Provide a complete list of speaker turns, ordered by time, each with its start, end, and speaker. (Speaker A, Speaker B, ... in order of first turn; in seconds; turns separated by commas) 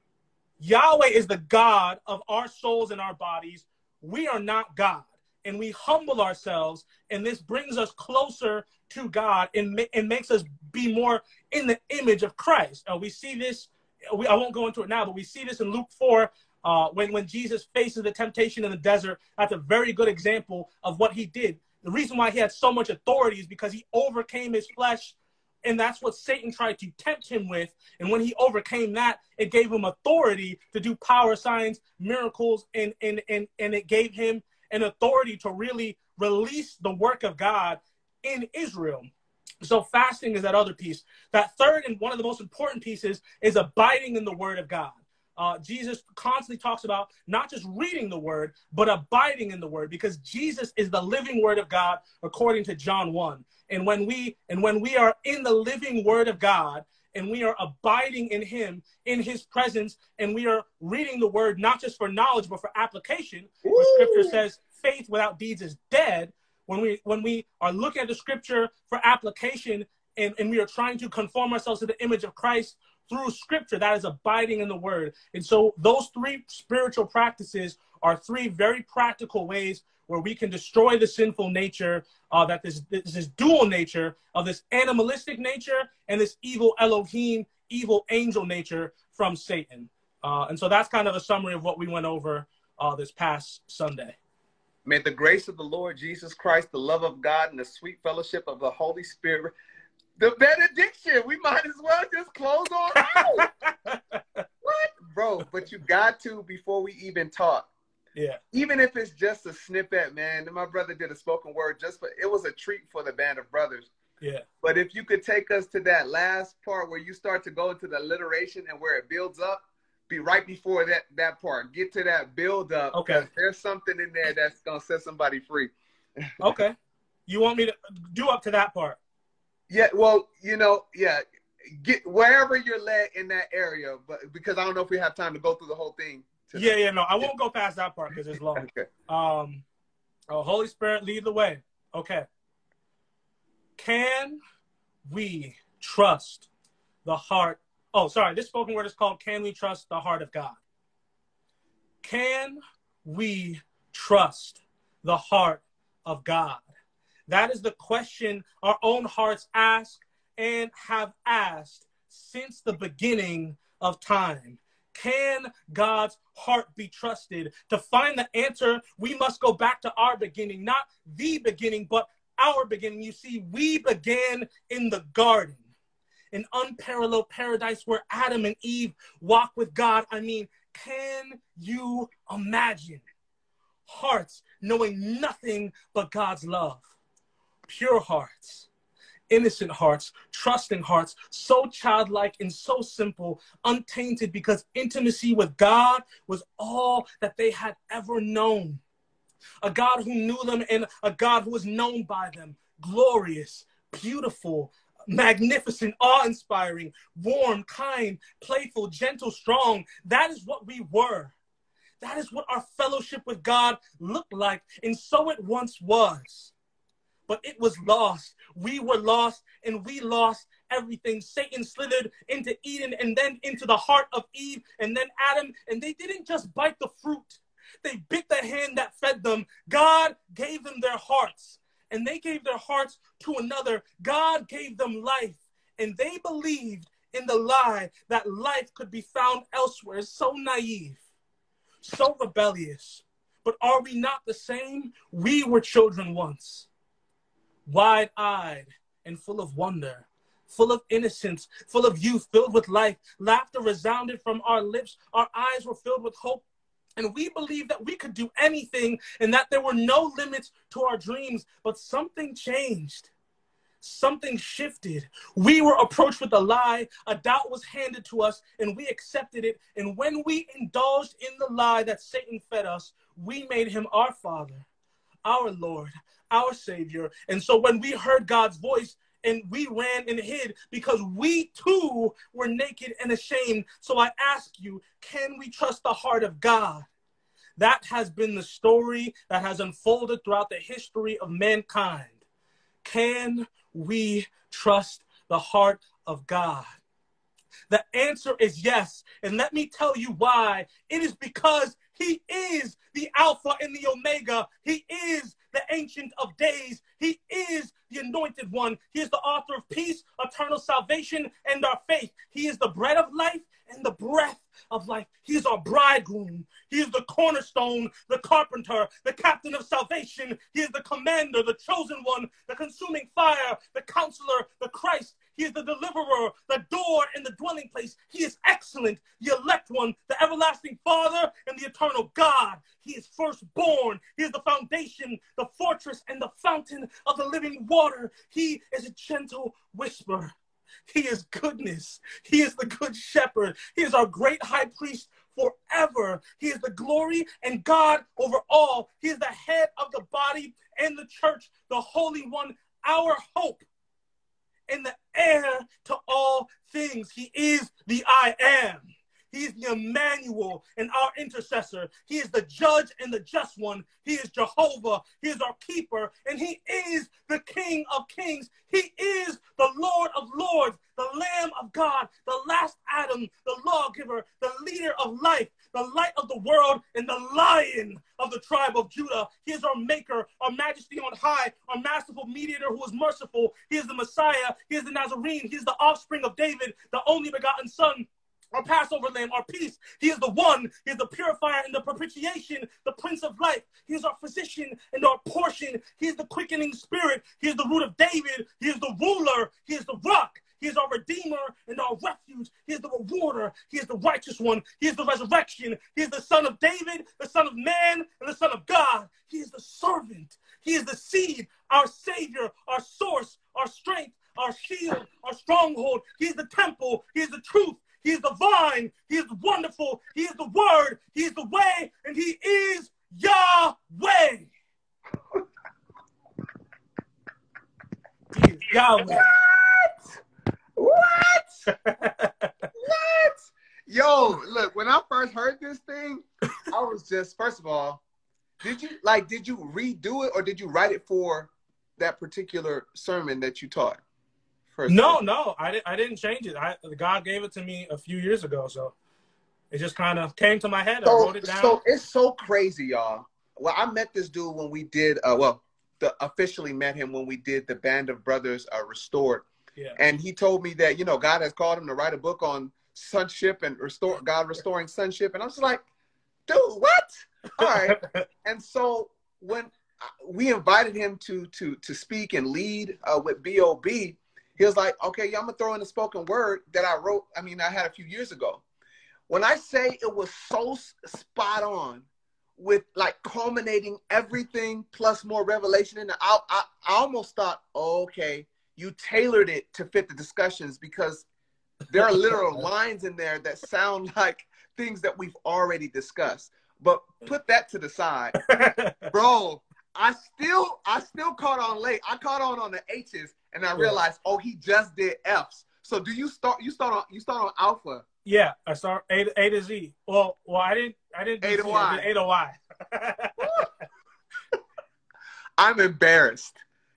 Speaker A: 0.6-39.1, Speaker A: 39.6-94.2, Speaker B: 63.6-64.4, Speaker B: 94.8-99.5, Speaker B: 100.2-103.5, Speaker A: 103.0-104.4, Speaker B: 104.6-107.7, Speaker B: 108.5-113.9, Speaker B: 114.6-126.2, Speaker A: 122.9-123.3, Speaker A: 126.4-126.8, Speaker A: 127.3-129.0, Speaker B: 129.7-137.3, Speaker A: 136.5-139.6, Speaker B: 138.6-138.9, Speaker A: 140.3-142.3, Speaker A: 143.8-144.4, Speaker A: 145.1-146.5, Speaker A: 147.1-150.6, Speaker A: 152.0-156.7, Speaker A: 157.3-175.6, Speaker A: 176.3-183.0, Speaker A: 183.9-186.8, Speaker A: 187.7-188.7, Speaker A: 189.3-198.8, Speaker A: 199.6-211.3, Speaker A: 212.0-216.5, Speaker A: 217.3-241.0, Speaker A: 241.8-246.7, Speaker A: 247.7-256.4, Speaker A: 257.0-263.1, Speaker A: 263.8-274.7, Speaker A: 275.2-286.9, Speaker A: 287.6-292.1, Speaker A: 292.8-296.7, Speaker A: 297.7-340.4, Speaker A: 340.9-353.6, Speaker A: 354.7-424.5, Speaker A: 428.3-429.2, Speaker B: 429.0-430.2, Speaker B: 430.8-431.6, Speaker A: 431.7-432.5, Speaker B: 432.7-438.0, Speaker B: 438.6-444.0, Speaker B: 444.7-445.2, Speaker A: 444.9-448.9, Speaker A: 449.7-451.8, Speaker B: 451.0-465.8, Speaker B: 466.5-478.6, Speaker A: 467.6-468.3, Speaker B: 479.3-482.1, Speaker B: 482.6-491.2, Speaker B: 491.9-498.4, Speaker A: 498.4-499.1, Speaker B: 499.1-508.0, Speaker A: 508.2-513.4, Speaker B: 511.4-512.1, Speaker B: 513.4-513.7, Speaker B: 515.6-516.6